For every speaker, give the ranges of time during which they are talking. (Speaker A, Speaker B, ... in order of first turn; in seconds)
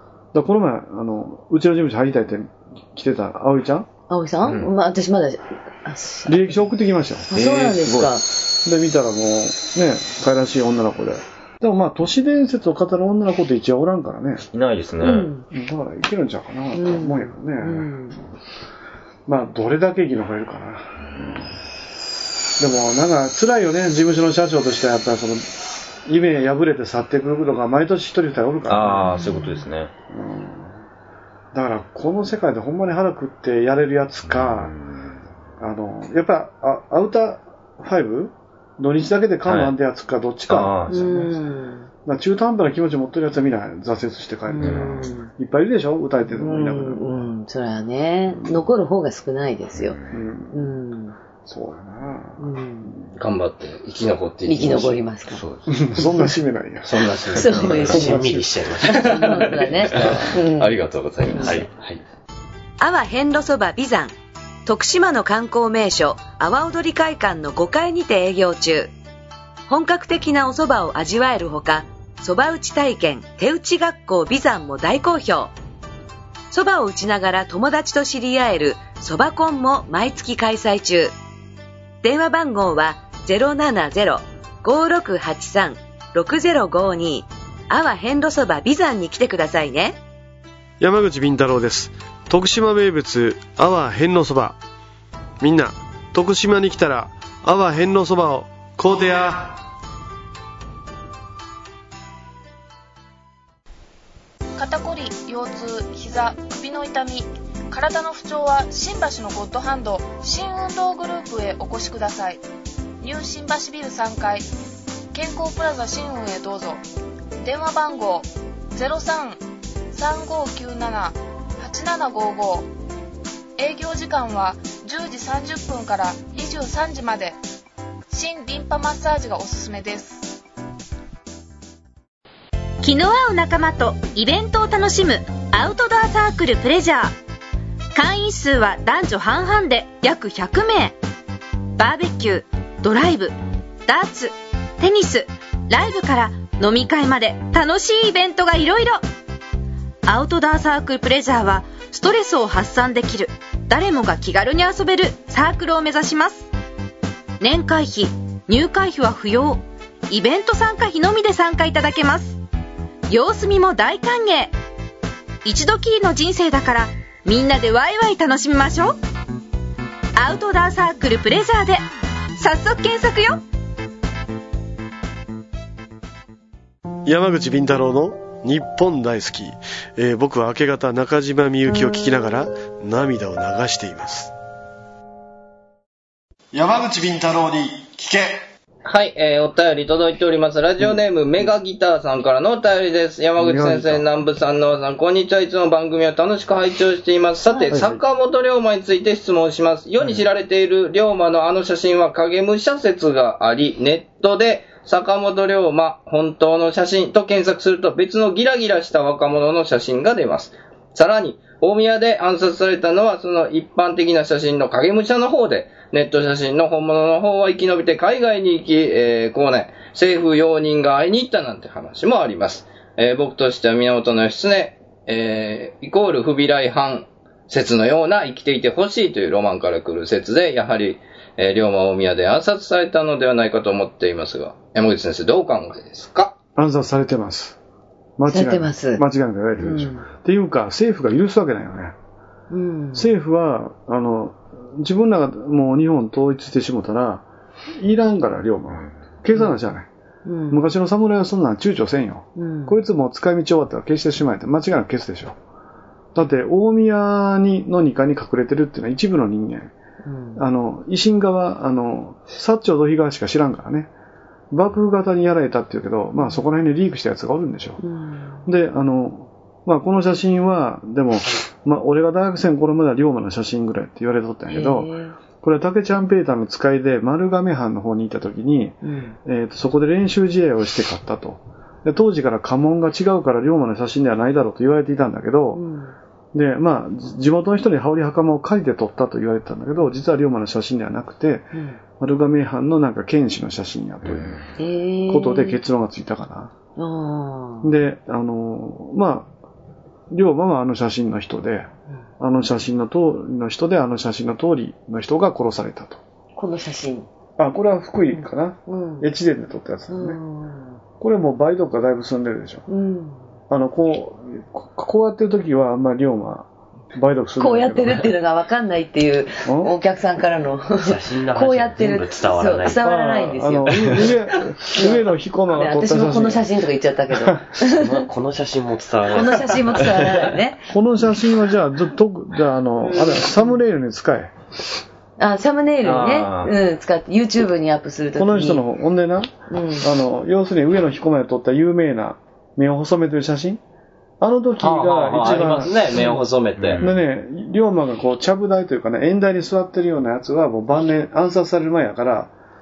Speaker A: 0.3-3.9, 6.2-7.3, 8.6-14.4, 15.5-17.9, 19.3-21.4, 22.6-29.1, 30.1-30.8, 31.5-34.7, 35.6-41.4, 42.0-47.3, 50.1-50.7, 51.4-53.0, 55.7-58.5, 59.9-60.2, 193.4-194.0, 197.7-198.0, 236.6-237.6, 238.2-241.9, 242.9-247.2, 247.8-249.9, 250.5-255.3, 256.1-259.7, 260.4-263.9, 264.5-267.8, 268.4-285.6, 286.3-294.4, 295.1-296.5, 297.6-299.3, 300.1-301.7, 302.2-306.0, 307.4-310.2, 311.0-312.6, 313.5-318.1, 319.4-319.7, 322.8-326.5, 330.7-334.3, 338.1-343.6, 344.2-346.2, 346.8-352.3
Speaker B: 4.1-6.5, 7.3-8.3, 15.0-15.4, 16.7-18.2, 29.1-29.6, 40.9-41.9, 44.5-45.3, 46.3-50.0, 50.5-51.1, 52.4-52.9, 54.5-55.4, 57.3-58.2, 58.8-60.7, 62.8-64.1, 64.7-68.9, 69.7-75.5, 76.5-81.1, 82.0-90.0, 238.3-239.0, 239.6-240.0, 242.5-243.1, 250.2-250.6, 252.4-252.8, 260.0-260.4, 266.1-266.4, 267.8-268.4, 274.5-275.1, 278.8-279.1, 285.5-285.9, 291.5-291.8, 294.6-295.6, 296.8-297.7, 306.4-307.1, 308.1-309.1, 309.9-310.8, 312.7-313.2, 317.4-324.0, 324.6-328.1, 329.1-330.6, 335.2-338.6, 339.5-339.9
Speaker C: 4.4-4.7, 7.3-8.2, 14.5-15.3, 28.7-29.9, 34.3-35.1, 39.4-39.7, 40.5-41.0, 44.6-45.0, 49.8-50.2, 294.1-294.4, 335.8-336.5, 346.6-347.0
Speaker D: 53.1-55.0, 56.9-62.0, 188.8-236.3, 344.6-346.8
Speaker E: 57.8-59.1, 61.4-61.7, 320.8-322.8, 327.6-330.3
Speaker F: 90.8-94.5, 95.4-99.5, 177.1-179.5, 180.2-184.3, 186.6-188.2
Speaker G: 104.5-112.4, 113.0-114.5, 115.1-116.8, 117.4-122.7, 123.6-127.4, 128.1-130.4
Speaker H: 132.8-137.1, 137.9-141.0, 141.8-143.3, 143.9-149.0, 150.1-156.5, 157.4-162.4, 163.1-164.5, 165.4-169.0, 170.2-171.8, 172.4-173.4